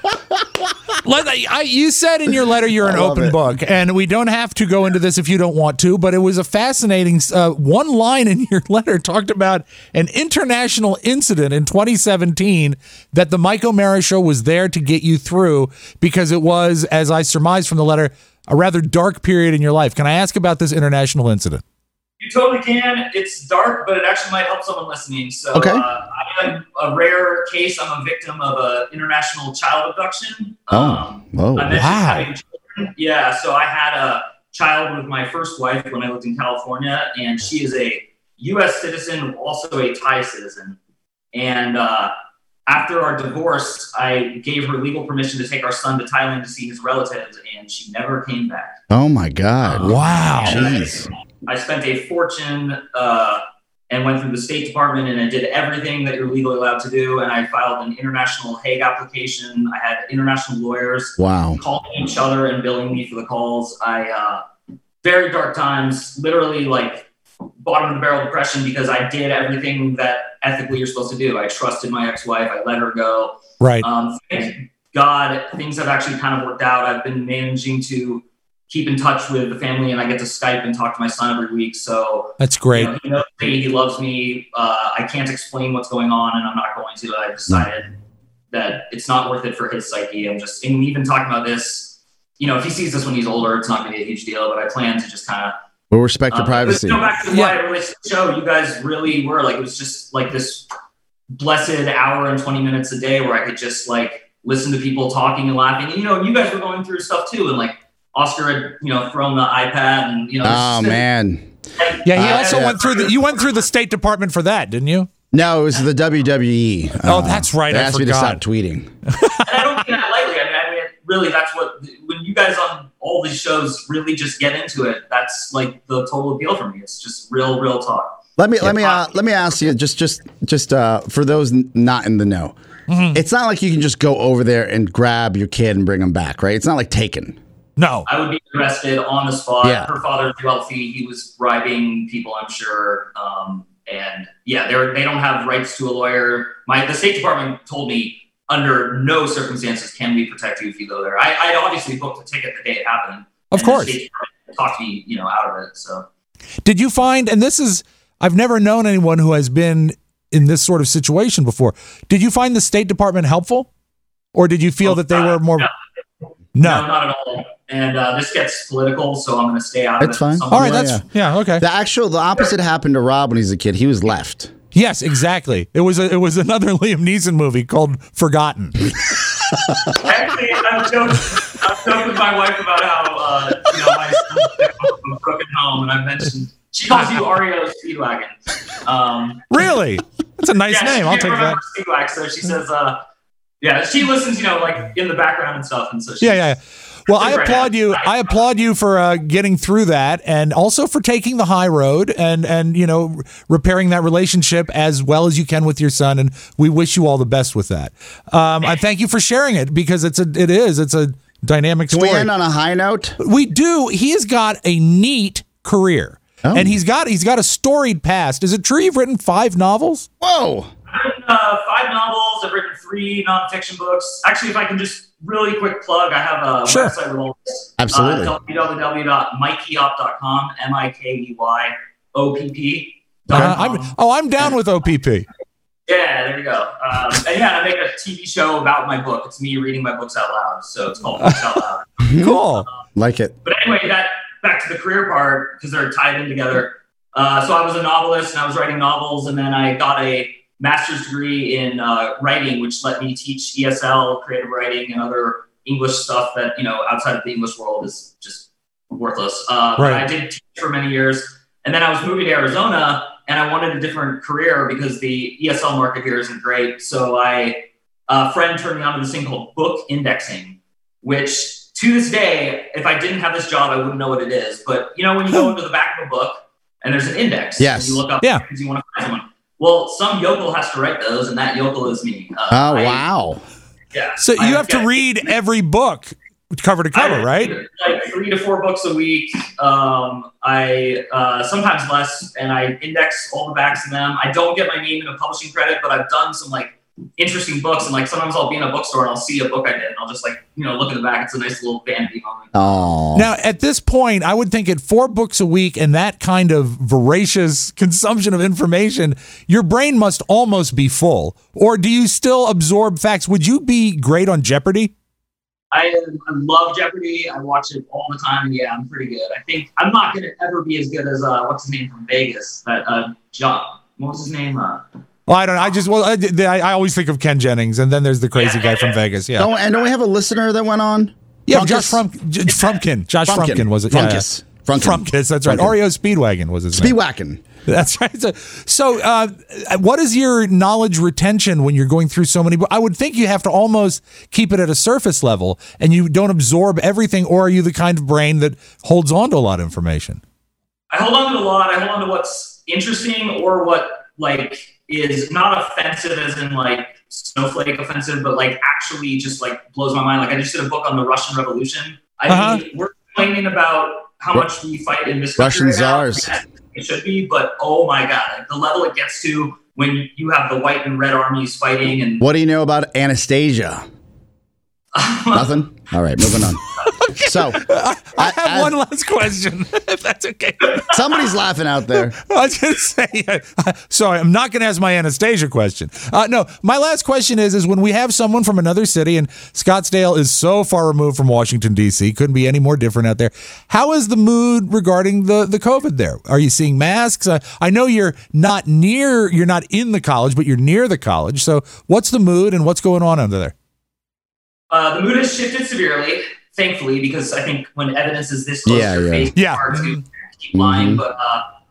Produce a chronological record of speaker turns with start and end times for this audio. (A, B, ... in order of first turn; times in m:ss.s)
0:01.0-0:21.6 A
0:02.8-0:03.4 B
0:22.2-0:40.8 C
0:25.5-0:25.8 B
0:30.7-0:31.9 B
0:31.7-0:32.3 A
0:41.3-0:42.1 C
0:42.7-0:48.8 C
0:48.9-0:51.1 B
0:49.6-1:04.4 C
0:49.8-0:50.6 A
1:01.2-1:01.6 B
1:05.0-1:07.0 C
1:07.6-1:27.9 C
1:13.6-1:13.8 A
1:22.4-1:22.9 A
1:28.5-1:35.5 C
1:35.9-1:37.2 B
1:36.3-1:40.7 C
1:37.3-1:37.6 A
1:41.3-1:51.0 C
1:50.4-1:51.5 B
1:51.8-1:53.4 C
1:52.0-1:55.1 A
1:52.1-1:52.8 B
1:55.3-1:58.9 B
1:57.0-1:58.4 A
1:59.4-2:09.2 C
2:08.4-2:12.5 B
2:12.9-2:13.2 A
2:13.1-2:17.4 B
2:17.8-2:18.1 A
2:18.0-2:36.0 C
2:19.6-2:19.9 B
2:33.5-2:34.0 A
2:36.6-2:43.7 A
2:44.3-2:45.7 A
2:44.8-2:45.7 C
2:46.5-2:46.8 A
2:46.6-2:51.0 C
2:50.0-2:51.0 B
2:50.5-2:51.6 A
2:51.6-2:54.5 B
2:54.7-2:58.9 A
3:00.0-3:09.4 C
3:06.9-3:07.2 A
3:09.5-3:11.6 A
3:10.7-3:13.0 C
3:13.6-3:16.4 C
3:16.2-3:32.3 A
3:17.1-3:18.1 C
3:31.9-3:33.2 B
3:33.2-3:40.1 A
3:36.4-3:36.8 B
3:40.2-3:40.7 B
3:40.9-3:53.9 C
3:46.6-3:46.9 A
3:47.8-3:48.4 B
3:53.3-3:55.2 A
3:55.9-4:02.0 C
4:02.0-4:03.4 B
4:02.2-4:02.7 A
4:03.4-4:43.0 C
4:19.8-4:20.0 A
4:37.6-4:38.0 B
4:42.5-4:43.4 B
4:43.9-4:45.0 C
4:44.2-4:47.5 A
4:46.9-5:02.8 C
5:02.5-5:03.3 B
5:03.1-5:14.9 A
5:15.7-5:24.8 C
5:25.3-5:29.5 A
5:28.4-5:29.0 C
5:29.4-5:32.0 B
5:31.5-5:37.0 A
5:33.3-5:35.8 B
5:36.7-5:37.4 B
5:37.7-5:50.2 A
5:50.9-6:12.2 C
6:02.3-6:02.6 A
6:05.4-6:06.4 B
6:12.2-6:13.8 B
6:14.9-6:15.6 C
6:15.3-6:18.7 B
6:17.1-6:20.9 A
6:20.9-6:22.2 B
6:22.2-6:43.5 A
6:44.7-6:51.4 C
6:48.6-6:49.3 B
6:49.4-6:50.0 A
6:50.5-6:51.0 B